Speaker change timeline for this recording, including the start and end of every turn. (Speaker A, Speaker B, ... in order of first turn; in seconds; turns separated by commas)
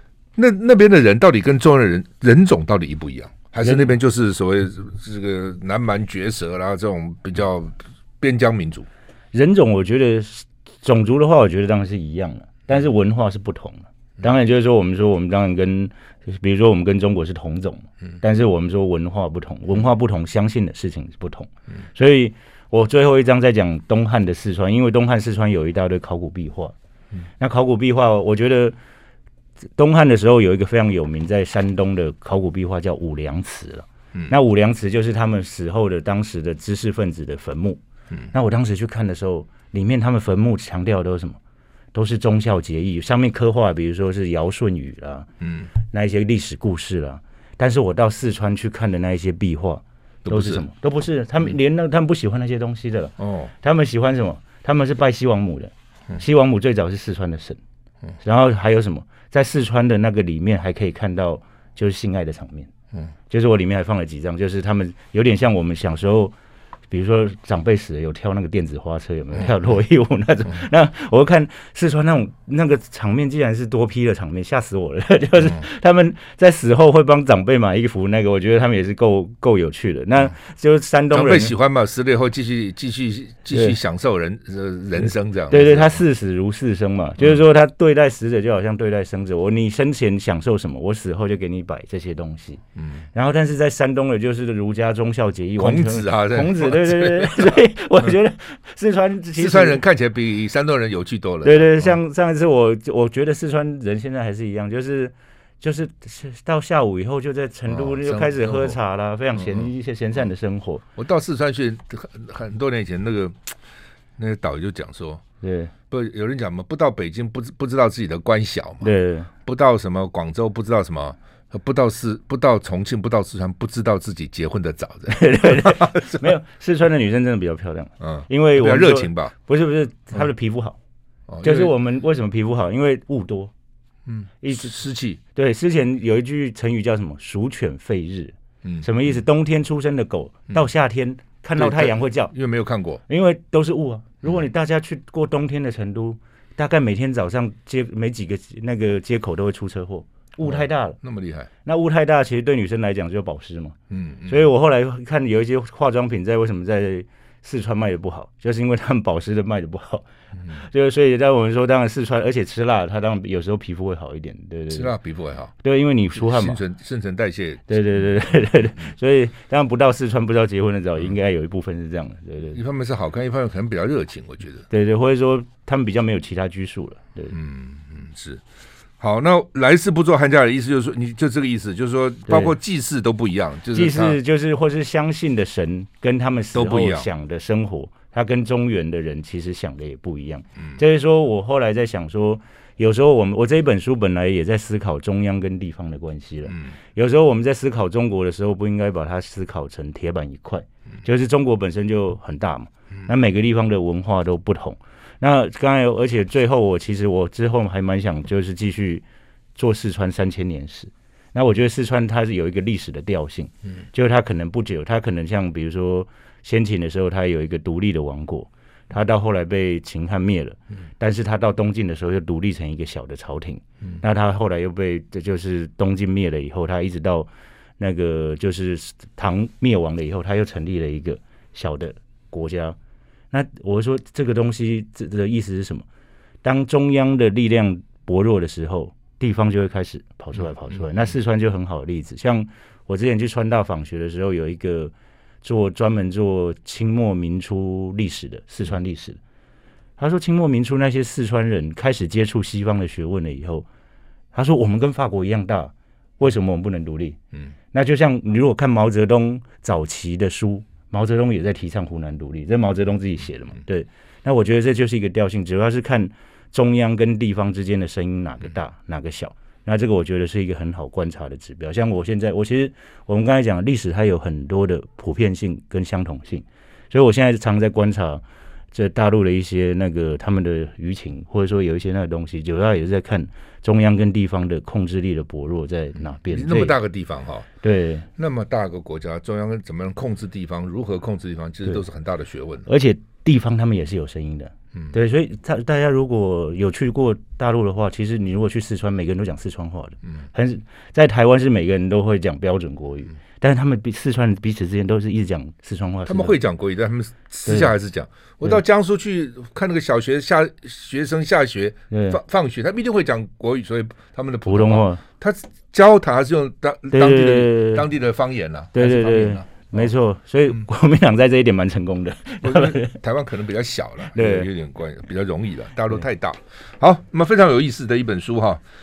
Speaker A: 0.3-8.9, Speaker B: 3.6-3.9, Speaker B: 9.3-26.7, Speaker B: 27.4-28.8, Speaker B: 29.8-37.8, Speaker B: 38.3-41.4, Speaker B: 41.9-45.3, Speaker A: 45.4-45.7, Speaker B: 45.9-57.6, Speaker A: 50.2-50.7, Speaker A: 53.2-53.5, Speaker B: 58.2-62.7, Speaker B: 63.3-66.3, Speaker B: 66.9-81.5, Speaker A: 81.1-86.0, Speaker B: 85.5-92.6, Speaker A: 92.8-93.0, Speaker B: 93.1-99.8, Speaker A: 95.6-98.1, Speaker A: 99.3-102.0, Speaker B: 101.4-110.8, Speaker A: 107.7-108.8, Speaker A: 109.3-109.7, Speaker A: 111.0-113.5, Speaker A: 114.2-115.2, Speaker B: 115.4-115.7, Speaker A: 115.9-118.9, Speaker B: 118.8-119.3, Speaker A: 119.5-126.3, Speaker B: 125.1-130.8, Speaker A: 128.0-129.3, Speaker A: 131.3-131.7, Speaker B: 131.4-133.5, Speaker A: 134.1-135.2, Speaker B: 134.4-134.7, Speaker B: 135.3-142.3, Speaker A: 141.6-143.0, Speaker B: 143.1-151.0, Speaker A: 150.4-151.5, Speaker B: 151.6-153.8, Speaker A: 153.9-154.4, Speaker B: 154.3-164.9, Speaker A: 164.7-165.5, Speaker B: 165.6-166.6, Speaker A: 166.1-168.0, Speaker B: 167.7-172.6, Speaker A: 172.5-174.7, Speaker B: 174.7-177.3, Speaker A: 177.3-178.4, Speaker A: 179.0-184.2, Speaker B: 182.3-182.5, Speaker B: 183.7-209.0, Speaker A: 186.5-187.1, Speaker A: 196.5-196.7, Speaker B: 209.6-232.8, Speaker B: 233.3-235.8, Speaker B: 236.4-249.2, Speaker B: 250.0-253.7, Speaker B: 254.3-257.2, Speaker B: 257.7-286.8, Speaker A: 286.2-287.5, Speaker B: 287.6-288.1, Speaker A: 288.1-292.7, Speaker B: 292.7-306.4, Speaker A: 306.1-319.9, Speaker B: 311.9-312.2, Speaker B: 314.4-315.0, Speaker B: 316.9-317.9, Speaker B: 318.7-322.9, Speaker A: 322.4-328.6, Speaker B: 324.1-324.5